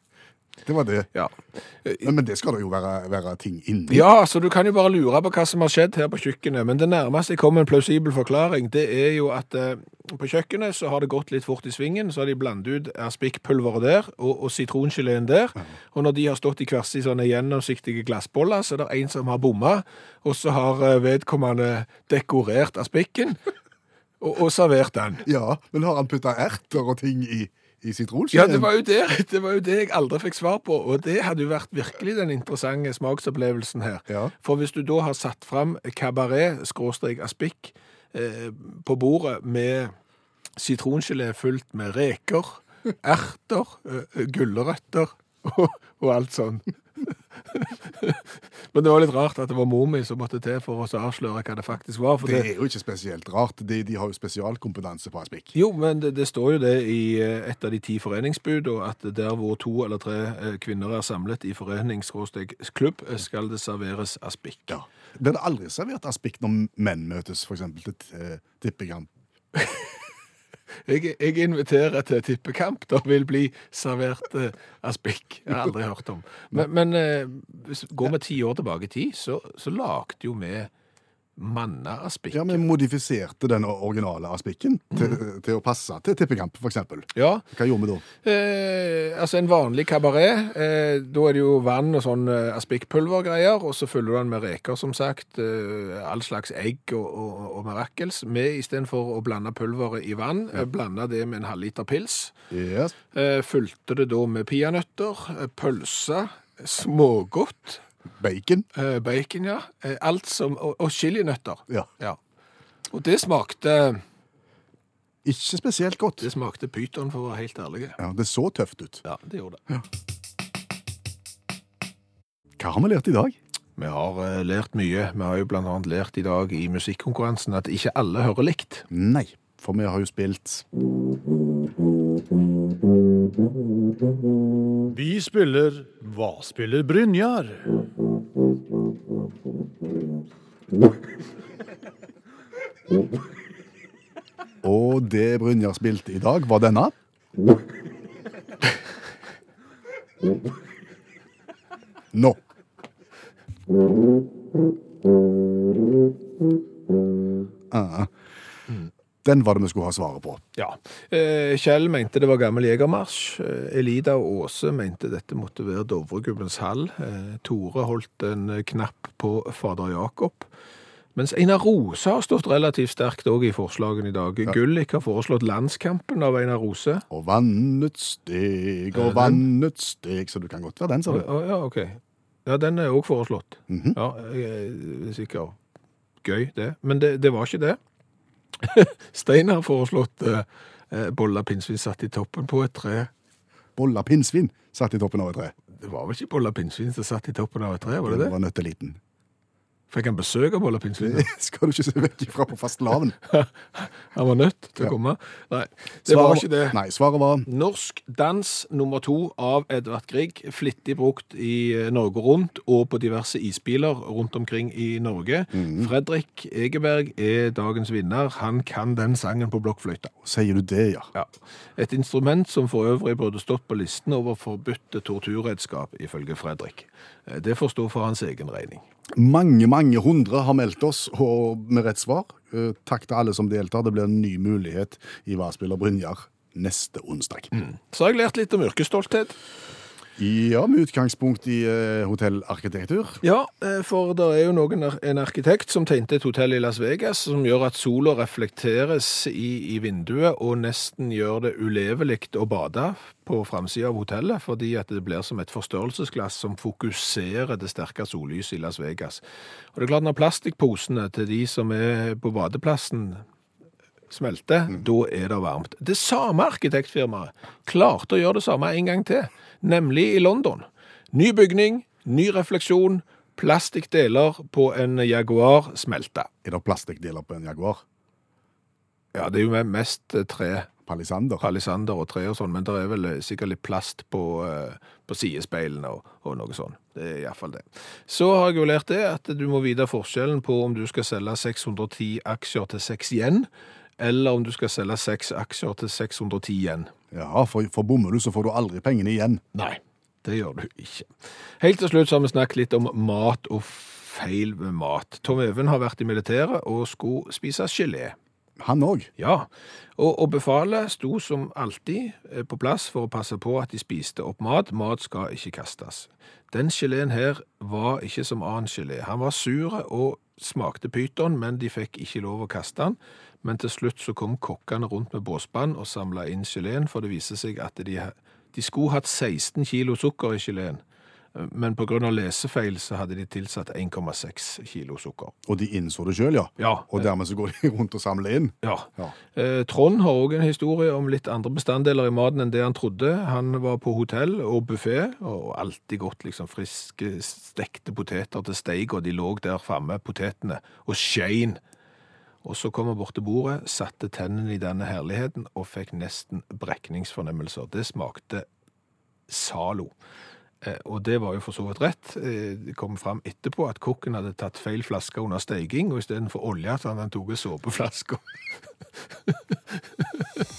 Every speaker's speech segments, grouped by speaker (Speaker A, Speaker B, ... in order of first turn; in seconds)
Speaker A: 0.6-1.1, 2.0-4.0, 25.2-28.7, 34.1-34.3, 52.2-55.5, 64.7-69.1, 82.3-88.0, 102.5-102.9, 108.2-108.7, 115.2-116.3, 118.0-119.0, 122.6-123.4, 128.9-130.7, 144.6-146.9, 152.1-152.4, 157.7-158.1, 159.2-160.4, 177.1-181.2, 183.7-184.0, 193.8-195.5, 198.0-199.0, 201.0-203.2, 206.1-207.5, 215.5-215.9, 220.2-221.1, 229.1-237.5, 240.2-243.2, 276.4-277.8, 280.9-281.4, 297.1-299.4, 308.6-309.1, 335.4-339.1
Speaker B: 1.1-2.1, 3.9-23.4, 24.2-25.2, 28.3-39.9, 40.6-52.5, 55.5-64.8, 69.5-69.9, 70.8-80.7, 81.4-82.7, 87.1-87.4, 88.2-102.3, 103.1-107.8, 108.7-112.2, 112.9-114.0, 116.2-118.0, 119.0-119.6, 123.8-128.8, 160.6-170.5, 171.1-177.0, 178.9-179.4, 181.1-185.6, 186.2-187.8, 188.6-193.1, 195.8-198.3, 199.9-201.3, 203.2-206.8, 207.4-220.1, 221.1-228.8, 237.5-239.3, 243.2-259.2, 259.7-263.2, 264.1-276.3, 279.1-280.7, 281.4-296.9, 299.5-308.1, 309.2-330.8, 331.3-335.3, 336.6-337.1, 338.6-351.6, 352.4-358.4, 359.3-359.9, 360.6-368.3
Speaker C: 134.9-137.9